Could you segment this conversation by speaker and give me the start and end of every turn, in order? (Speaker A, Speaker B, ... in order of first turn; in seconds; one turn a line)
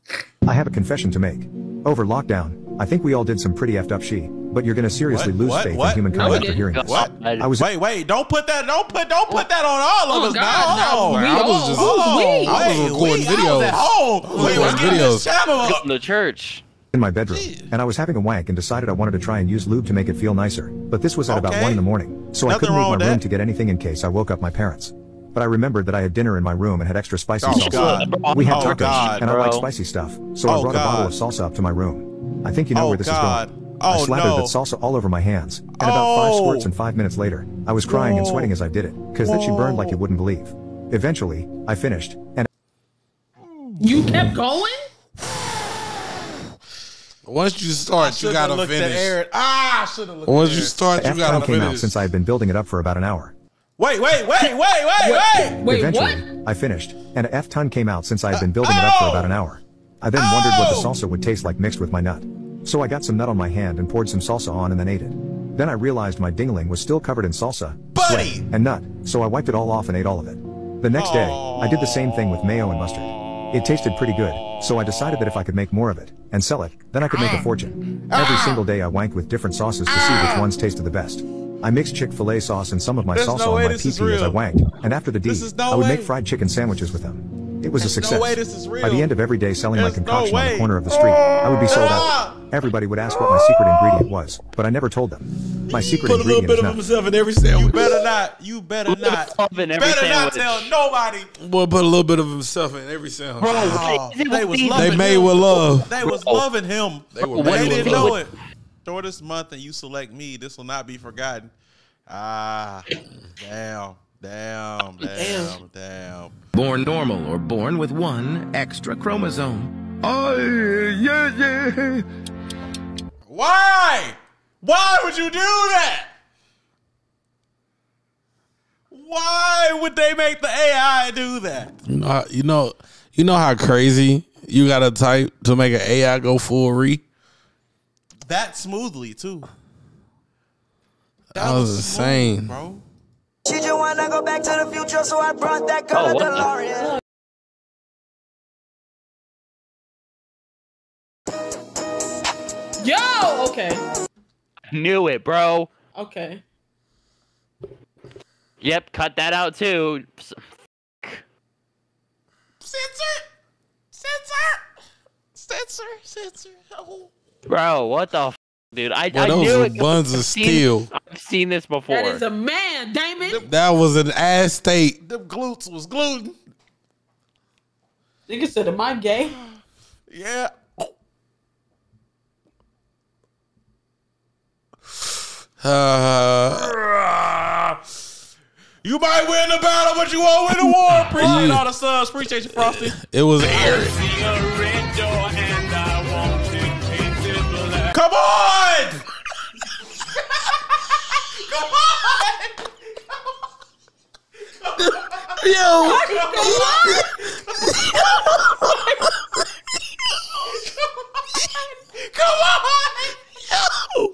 Speaker A: 0.4-7.7
Speaker B: 5.1-15.8
Speaker C: 6.1-6.7
Speaker D: 6.6-7.5
Speaker C: 10.1-12.8
Speaker E: 10.8-15.3
Speaker C: 14.4-14.7
Speaker D: 15.6-16.6
Speaker A: 16.9-42.5
Speaker B: 17.3-17.7
Speaker B: 21.3-21.8
Speaker B: 22.4-23.2
Speaker B: 27.4-29.2
Speaker D: 27.5-29.6
Speaker B: 30.5-31.2
Speaker B: 32.7-34.5
Speaker B: 35.8-36.7
Speaker B: 37.9-38.5
Speaker B: 39.2-40.0
Speaker B: 43.4-43.8
Speaker C: 43.8-44.9
Speaker E: 47.2-49.1
Speaker B: 48.0-51.8
Speaker E: 50.2-52.0
Speaker A: 51.0-53.3
Speaker B: 53.8-55.6
Speaker C: 55.0-56.3
Speaker A: 55.6-96.8
Speaker B: 58.3-59.4
Speaker B: 60.1-61.0
Speaker B: 67.9-68.5
Speaker B: 70.9-75.4
Speaker B: 78.1-78.6
Speaker B: 79.9-80.5
Speaker B: 83.1-84.5
Speaker B: 85.2-86.1
Speaker B: 87.8-89.1
Speaker B: 89.7-92.4
Speaker E: 95.8-98.0
Speaker B: 97.5-101.3
Speaker D: 98.9-100.7
Speaker E: 101.4-103.9
Speaker D: 103.4-106.4
Speaker B: 103.4-108.3
Speaker E: 104.7-105.9
Speaker E: 107.2-108.2
Speaker D: 107.2-108.2
Speaker B: 108.8-111.5
Speaker B: 112.1-116.3
Speaker C: 115.2-115.6
Speaker F: 116.5-122.0
Speaker B: 123.3-126.1
Speaker B: 128.9-131.7
Speaker E: 131.9-137.0
Speaker B: 138.3-139.5
Speaker E: 141.3-142.6
Speaker B: 141.3-142.8
Speaker G: 143.4-146.9
Speaker D: 145.9-146.5
Speaker C: 152.8-153.8
Speaker D: 154.7-155.7
Speaker C: 155.9-156.4
Speaker D: 158.6-160.5
Speaker B: 162.6-163.2
Speaker B: 163.9-164.6
Speaker B: 165.3-167.1
Speaker D: 167.5-172.2
Speaker E: 169.1-170.9
Speaker C: 171.9-173.4
Speaker E: 173.4-175.0
Speaker B: 175.0-176.4
Speaker C: 178.3-179.3
Speaker B: 179.4-180.5
Speaker E: 185.6-186.8
Speaker B: 186.6-187.8
Speaker B: 188.8-193.8
Speaker E: 191.1-191.6
Speaker E: 192.6-194.0
Speaker B: 197.9-199.0
Speaker B: 201.5-202.6
Speaker B: 204.6-206.9
Speaker E: 204.8-207.1
Speaker C: 205.8-207.0
Speaker B: 211.9-213.1